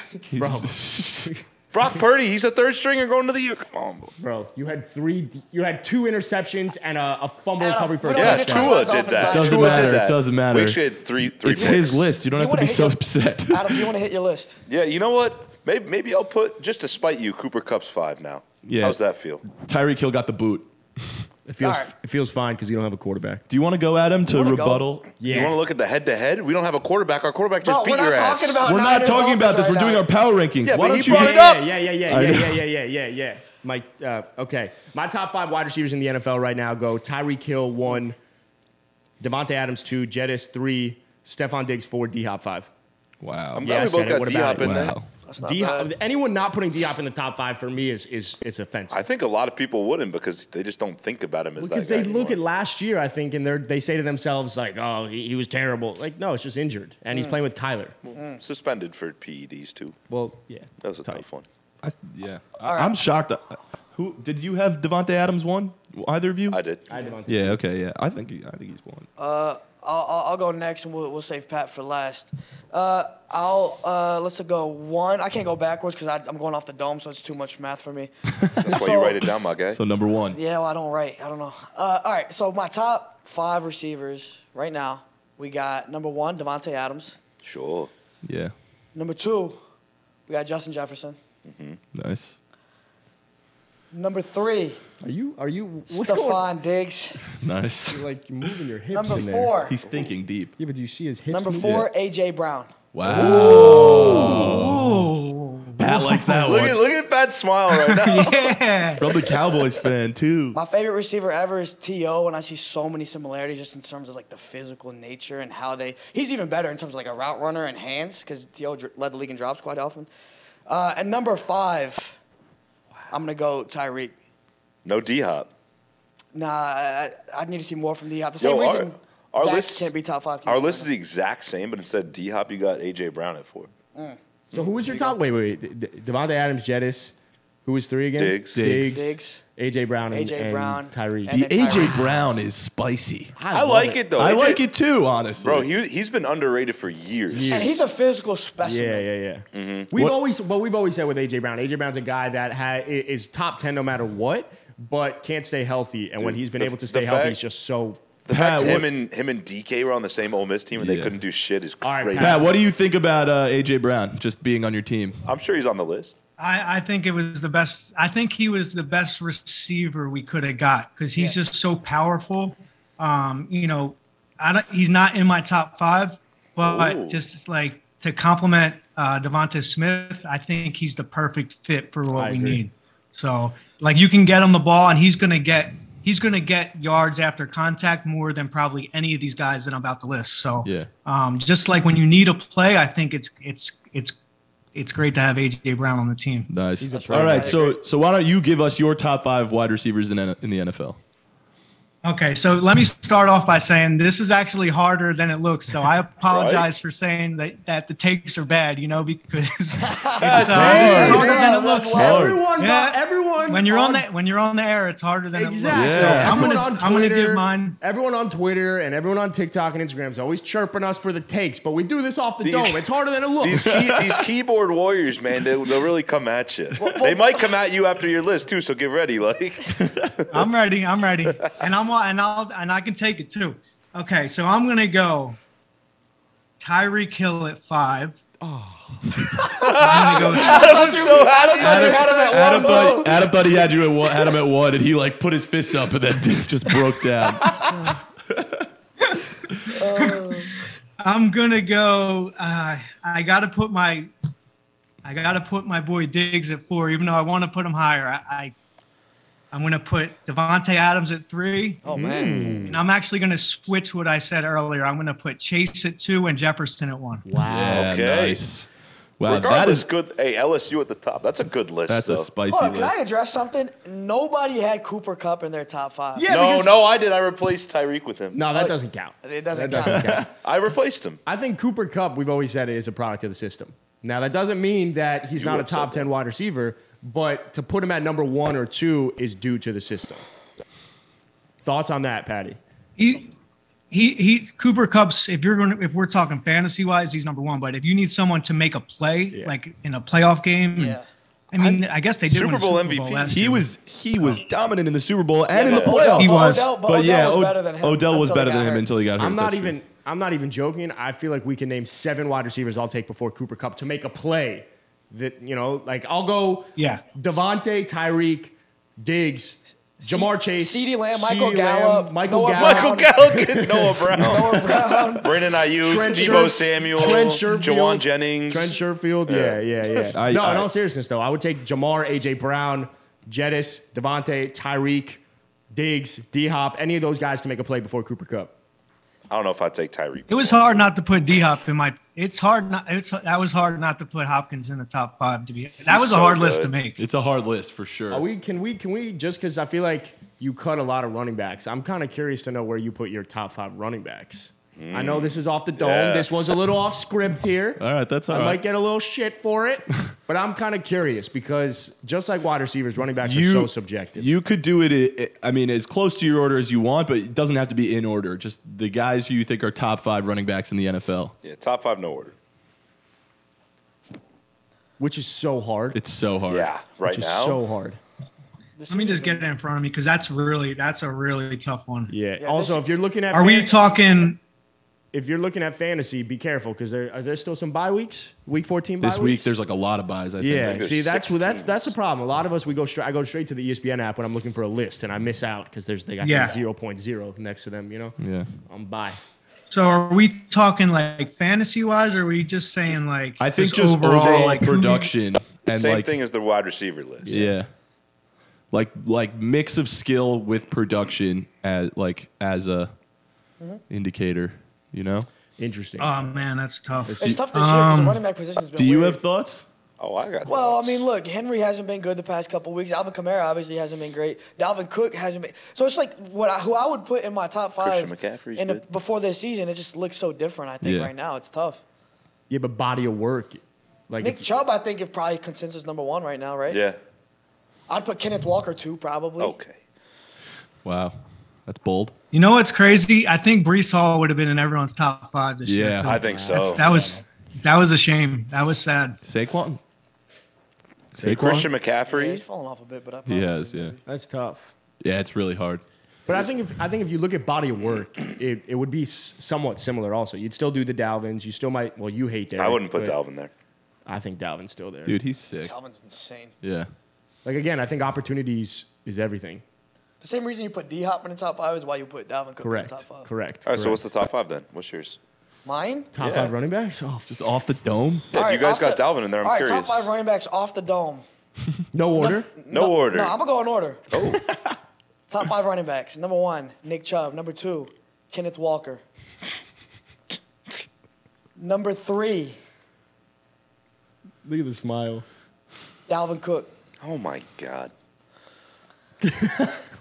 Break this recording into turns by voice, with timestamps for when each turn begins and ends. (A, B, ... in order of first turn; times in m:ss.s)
0:00.3-0:01.3 A
0:00.4-0:01.4 B
0:01.7-0:04.1 C
0:04.2-0:09.2 B
0:07.6-0:10.0 D
0:08.1-0:12.1 C
0:09.2-0:13.9 A
0:11.5-0:14.6 D
0:14.7-0:19.5 C
0:18.6-0:19.0 A
0:19.5-0:21.2 A
0:21.5-0:23.4 B
0:21.6-0:21.9 D
0:23.5-0:25.1 A
0:24.3-0:24.8 D
0:25.2-0:25.6 B
0:25.2-0:28.6 C
0:27.6-0:30.1 D
0:28.6-0:31.4 A
0:30.6-0:31.7 C
0:31.0-0:38.2 B
0:32.1-0:32.6 A
0:39.2-0:42.7 B
0:43.2-0:43.6 A
0:43.6-0:44.9 C
0:43.6-0:49.0 B
0:44.6-0:45.1 A
0:45.3-0:45.9 D
0:48.9-0:52.4 C
0:51.6-0:58.0 B
0:57.1-0:57.4 D
0:58.0-1:00.0 C
0:58.2-0:58.4 D
1:00.1-1:01.2 B
1:00.8-1:01.5 C
1:01.8-1:06.6 A
1:02.6-1:03.0 D
1:06.5-1:06.8 C
1:06.9-1:07.6 B
1:07.3-1:09.1 A
1:09.2-1:18.1 D
1:18.4-1:18.8 A
1:18.6-1:19.8 C
1:18.6-1:19.2 D
1:19.7-1:20.4 A
1:20.3-1:27.2 D
1:27.4-1:27.9 C
1:28.2-1:28.5 A
1:29.0-1:29.6 D
1:30.3-1:31.2 D
1:31.4-1:31.8 C
1:31.9-1:32.4 A
1:33.9-1:34.8 D
1:35.0-1:36.5 B
1:35.9-1:37.2 D
1:37.3-1:38.0 A
1:37.9-1:39.6 B
1:38.9-1:39.8 D
1:39.6-1:40.5 A
1:40.6-1:41.9 B
1:41.3-1:42.7 D
1:42.9-1:45.1 A
1:43.0-1:44.6 B
1:43.2-1:44.6 C
1:44.4-1:46.7 E
1:45.8-1:46.8 A
1:46.4-1:48.6 C
1:47.7-1:49.1 E
1:49.0-1:50.6 A
1:50.5-2:00.1 D
2:00.7-2:02.2 D
2:03.1-2:04.1 D
2:04.8-2:05.5 C
2:06.3-2:10.9 D
2:08.4-2:09.9 C
2:10.5-2:13.7 C
2:14.5-2:17.1 B
2:17.6-2:21.4 B
2:18.2-2:18.6 C
2:18.6-2:19.1 A
2:18.7-2:19.4 D
2:20.1-2:22.2 D
2:21.3-2:23.4 A
2:23.4-2:24.0 B
2:23.5-2:24.6 C
2:24.2-2:25.7 A
2:25.4-2:27.7 C
2:27.3-2:27.8 B
2:27.5-2:29.1 D
2:28.6-2:38.8 B
2:29.5-2:29.9 C
2:36.2-2:37.4 C
2:38.3-2:42.4 C
2:38.3-2:38.9 A
2:40.8-2:41.2 A
2:41.8-2:42.5 B
2:42.2-2:45.2 A
2:45.2-2:46.2 C
2:46.4-3:14.2 E
2:56.6-2:57.2 C
3:02.1-3:02.6 B
3:14.7-3:16.5 E
3:16.5-3:21.0 A
3:16.8-3:17.7 B
3:16.9-3:17.8 D
3:22.0-3:37.8 E
3:26.3-3:26.7 C
3:29.8-3:32.3 D
3:30.2-3:31.4 C
3:30.3-3:31.3 A
3:30.5-3:34.0 B
3:31.9-3:32.4 A
3:35.3-3:43.8 B
3:35.7-3:36.5 A
3:42.4-3:42.8 C
3:43.4-3:49.9 C
3:43.7-3:44.0 A
3:46.8-3:47.4 D
3:50.3-3:55.4 E
3:56.6-3:58.2 E
3:58.4-3:59.4 B
3:59.4-4:03.3 C
3:59.6-4:02.8 E
3:59.9-4:03.2 D
4:02.3-4:07.7 A
4:08.3-4:08.7 A
4:09.7-4:10.6 D
4:09.9-4:10.2 E
4:11.0-4:14.1 E
4:15.0-4:18.5 E
4:19.5-4:21.8 E
4:21.8-4:22.7 D
4:21.9-4:22.8 C
4:22.4-4:22.8 B
4:22.7-4:27.2 E
4:27.2-4:27.9 B
4:27.4-4:28.7 A
4:27.6-4:28.4 C
4:29.2-4:29.9 A
4:29.3-4:32.3 C
4:31.9-4:33.0 A
4:32.5-4:36.3 D
4:36.2-4:36.7 B
4:36.3-4:38.4 C
4:38.3-4:40.3 B
4:38.5-4:40.3 D
4:39.7-4:40.3 A
4:40.4-4:41.2 C
4:41.2-4:50.2 B
4:45.4-4:46.1 C
4:51.6-4:52.6 B
4:53.0-4:53.3 E
4:53.9-5:01.0 E
5:00.8-5:01.1 D
5:01.5-5:03.7 E
5:01.6-5:03.4 C
5:03.3-5:09.8 A
5:05.5-5:08.8 D
5:05.7-5:06.0 C
5:06.1-5:06.7 E
5:09.2-5:24.6 B
5:16.8-5:17.0 E
5:20.0-5:23.1 D
5:22.5-5:30.1 C
5:24.2-5:25.4 D
5:25.2-5:38.6 B
5:26.2-5:26.4 D
5:30.1-5:30.7 A
5:39.3-5:40.9 C
5:40.3-5:47.0 E
5:45.9-5:46.8 C
5:47.0-5:48.3 A
5:48.1-6:04.3 B
5:54.8-5:56.3 C
5:57.8-5:58.6 A
6:03.2-6:11.4 A
6:11.4-6:12.4 C
6:15.0-6:16.0 B
6:15.9-6:16.7 A
6:16.5-6:17.6 C
6:17.1-6:18.0 B
6:18.8-6:19.5 D
6:18.9-6:22.1 E
6:22.1-6:23.9 B
6:22.4-6:22.8 D
6:23.3-6:24.4 E
6:25.1-6:29.6 B
6:29.0-6:30.9 A
6:30.4-6:39.2 B
6:30.6-6:32.0 C
6:36.2-6:36.6 E
6:38.2-6:38.5 A
6:39.7-6:45.1 E
6:43.4-6:46.1 A
6:45.7-6:47.5 C
6:47.2-6:47.5 B
6:47.3-6:47.7 A
6:48.7-6:52.9 A
6:53.9-6:55.3 A
6:55.6-6:56.3 B
6:56.0-6:58.2 E
6:57.1-6:57.4 B
6:57.2-6:59.2 D
6:58.8-6:59.6 A
7:00.0-7:01.1 C
7:00.5-7:11.8 D
7:07.8-7:08.8 C
7:10.8-7:11.1 A
7:12.5-7:14.5 B
7:14.2-7:16.8 D
7:16.7-7:17.0 C
7:17.9-7:19.6 D
7:19.4-7:19.8 C
7:20.8-7:22.1 A
7:22.3-7:29.2 E
7:25.7-7:26.2 A
7:26.0-7:26.8 C
7:26.2-7:27.2 B
7:29.2-7:29.8 A
7:31.1-7:31.7 A
7:31.2-7:31.7 B
7:31.2-7:32.4 C
7:32.1-7:34.0 D
7:33.3-7:34.0 A
7:34.0-7:34.8 B
7:35.0-7:35.8 A
7:36.3-7:43.2 B
7:42.6-7:43.5 C
7:44.1-7:45.2 B
7:45.0-7:45.7 A
7:45.6-7:46.5 D
7:46.6-7:46.9 A
7:47.4-7:49.6 B
7:50.2-7:53.3 D
7:52.6-7:54.0 B
7:53.7-7:55.2 C
7:55.6-7:56.1 D
7:56.1-7:57.3 B
7:56.2-7:56.5 C
7:57.2-7:58.3 A
7:58.3-8:00.1 C
7:58.3-8:01.2 D
8:01.9-8:02.5 B
8:02.1-8:04.4 D
8:02.7-8:03.4 C
8:04.1-8:04.4 C
8:05.3-8:09.0 D
8:11.6-8:12.6 D
8:14.4-8:15.2 B
8:16.1-8:16.7 D
8:17.0-8:17.9 C
8:19.2-8:19.8 B